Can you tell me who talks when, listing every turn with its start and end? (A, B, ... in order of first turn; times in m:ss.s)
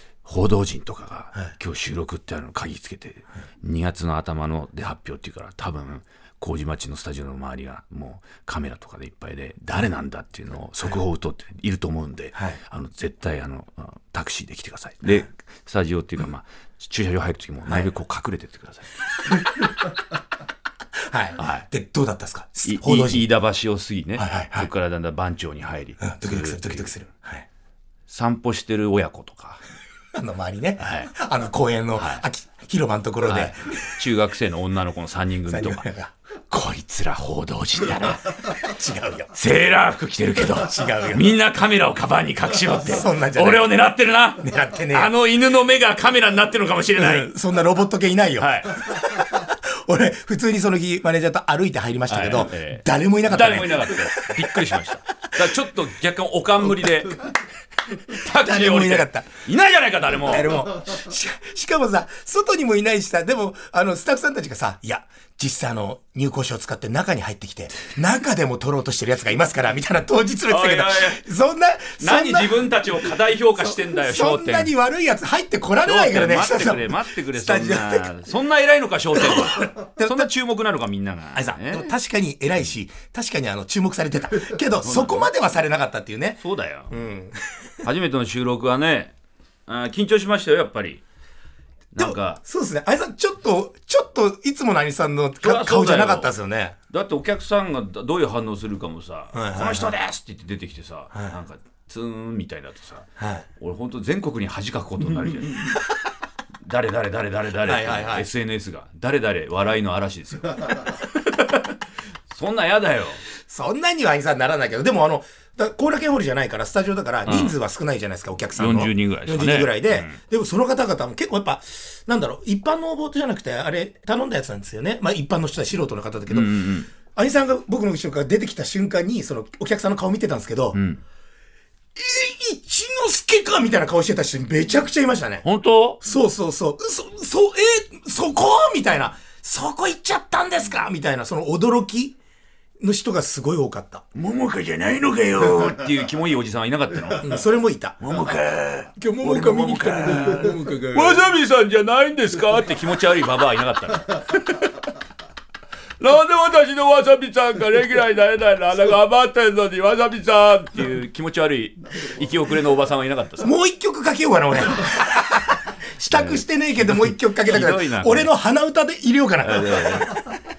0:00.2-0:18.9 A
0:21.0-0:23.3 B
0:21.4-0:21.7 A
0:22.6-0:26.9 A
0:24.2-0:24.7 B
0:26.0-0:27.4 B
0:28.1-0:29.6 A
0:30.1-0:34.0 B
0:30.8-0:31.1 A
0:32.0-0:32.2 A
0:33.2-0:35.9 A
0:35.5-0:36.1 B
0:36.5-0:38.6 A
0:38.5-0:39.3 B
0:39.3-0:47.3 A
0:40.4-0:41.3 B
0:42.8-0:43.7 B
0:44.4-0:45.1 B
0:47.0-0:54.8 B
0:48.4-0:49.0 A
0:52.1-0:57.3 A
0:57.9-1:00.6 A
0:58.2-0:59.3 B
1:00.2-1:12.7 B
1:10.5-1:11.2 A
1:12.0-1:14.7 A
1:13.6-1:18.1 B
1:15.8-1:21.9 A
1:19.2-1:20.3 B
1:21.3-1:27.8 B
1:24.8-1:25.3 A
1:26.4-1:26.9 A
1:27.8-1:29.1 A
1:29.7-1:31.0 A
1:31.9-1:32.4 A
1:32.0-1:36.8 B
1:35.4-1:36.3 A
1:36.9-1:45.8 A
1:39.3-1:39.9 B
1:43.2-1:43.4 B
1:46.6-1:51.8 A
1:47.6-1:48.3 B
1:52.3-1:53.2 A
1:53.4-2:10.8 B
1:57.3-1:57.5 A
1:58.6-2:00.2 A
2:06.3-2:06.9 A
2:10.7-2:11.0 A
2:11.9-2:15.4 B
2:15.4-2:16.0 A
2:16.0-2:22.2 B
2:22.8-2:24.0 B
2:24.1-2:27.4 A
2:27.2-2:28.0 B
2:28.0-2:34.8 A
2:29.0-2:31.2 B
2:36.0-2:43.5 A
2:43.4-2:50.3 B
2:46.1-2:48.3 A
2:49.4-2:50.2 A